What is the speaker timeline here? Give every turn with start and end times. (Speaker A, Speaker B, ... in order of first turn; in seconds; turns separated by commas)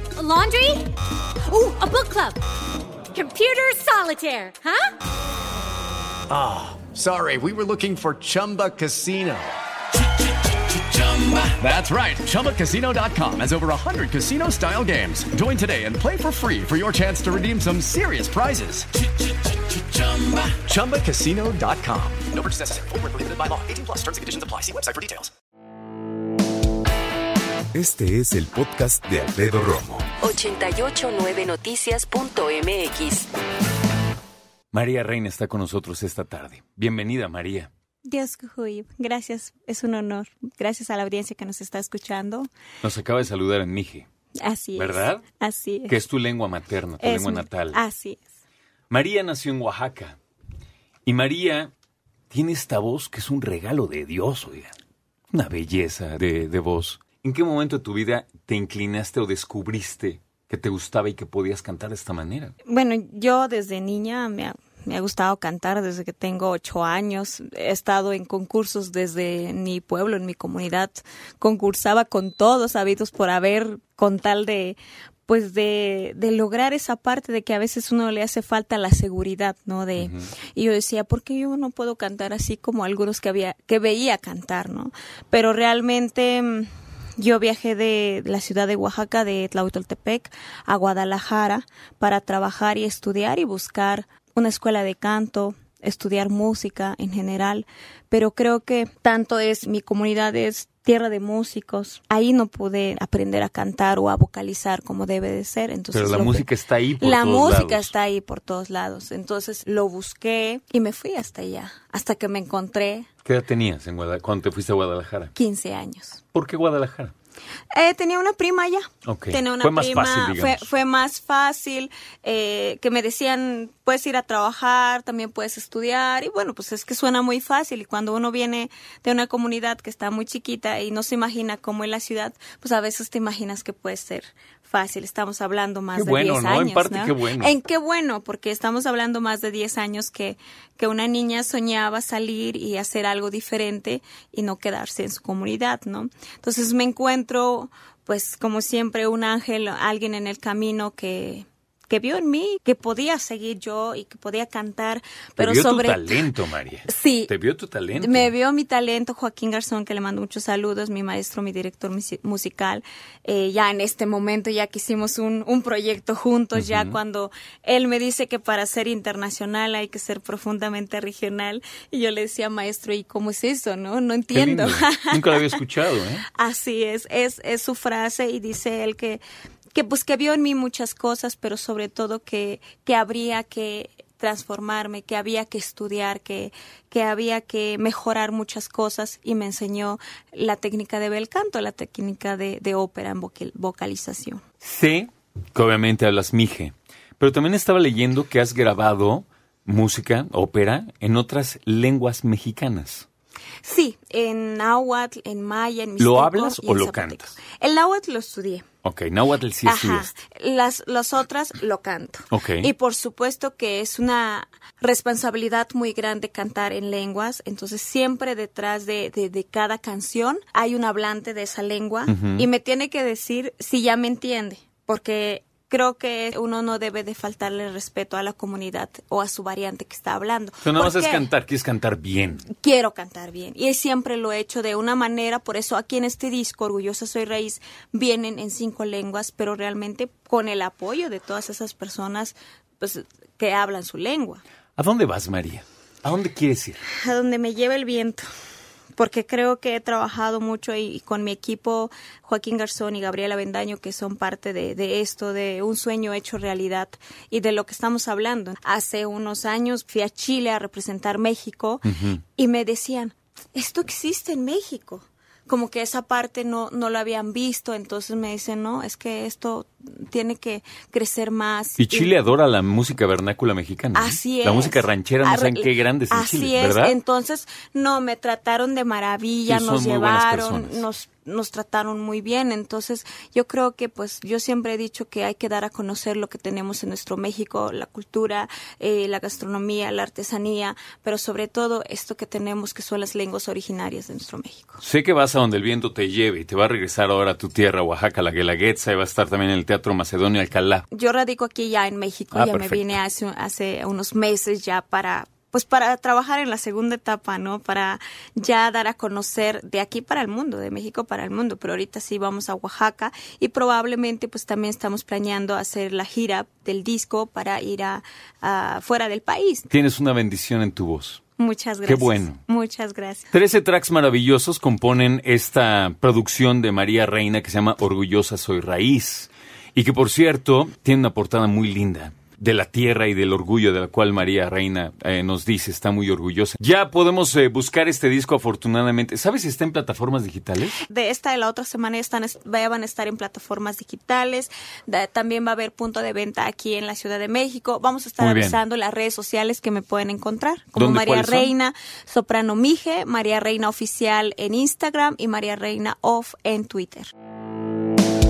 Speaker A: 0.2-0.9, Speaker A: 1.5-2.4, Speaker A: 3.1-4.9, Speaker B: 6.3-9.5, Speaker B: 10.8-18.9, Speaker B: 19.8-25.3, Speaker C: 27.7-30.1, Speaker D: 30.2-33.3, Speaker E: 34.7-37.7, Speaker F: 38.0-42.5, Speaker E: 42.8-44.0, Speaker F: 44.4-46.0, Speaker E: 44.8-45.2, Speaker E: 45.9-47.8, Speaker F: 47.0-48.2, Speaker E: 48.9-50.2, Speaker E: 51.0-51.7, Speaker E: 52.3-54.7, Speaker E: 55.3-62.5, Speaker F: 62.6-113.1, Speaker E: 105.9-107.9, Speaker E: 113.2-115.3, Speaker F: 115.3-116.2, Speaker E: 116.3-117.1, Speaker F: 117.7-156.3, Speaker E: 119.0-120.7, Speaker E: 135.9-137.5, Speaker E: 155.4-158.3, Speaker F: 156.9-157.3, Speaker F: 157.9-175.6, Speaker E: 166.6-167.0, Speaker E: 174.3-176.3, Speaker F: 176.3-179.2, Speaker F: 179.7-194.4, Speaker E: 194.6-203.1, Speaker F: 203.6-208.7, Speaker E: 206.0-207.4, Speaker E: 208.8-210.1, Speaker F: 209.6-231.3, Speaker E: 212.3-212.7, Speaker E: 222.1-222.4, Speaker E: 230.6-232.5, Speaker F: 232.6-244.4, Speaker E: 244.8-246.8, Speaker F: 246.9-248.2, Speaker F: 249.0-261.8, Speaker E: 261.8-262.2, Speaker F: 262.4-272.1, Speaker E: 271.8-277.0, Speaker F: 273.9-294.8, Speaker E: 279.4-280.8, Speaker E: 294.8-300.9, Speaker F: 300.9-319.7, Speaker E: 302.3-303.0, Speaker E: 319.7-321.2, Speaker F: 321.4-323.3, Speaker E: 321.8-322.4, Speaker E: 323.3-340.8, Speaker F: 340.8-357.1, Speaker E: 348.2-348.6, Speaker E: 350.8-351.5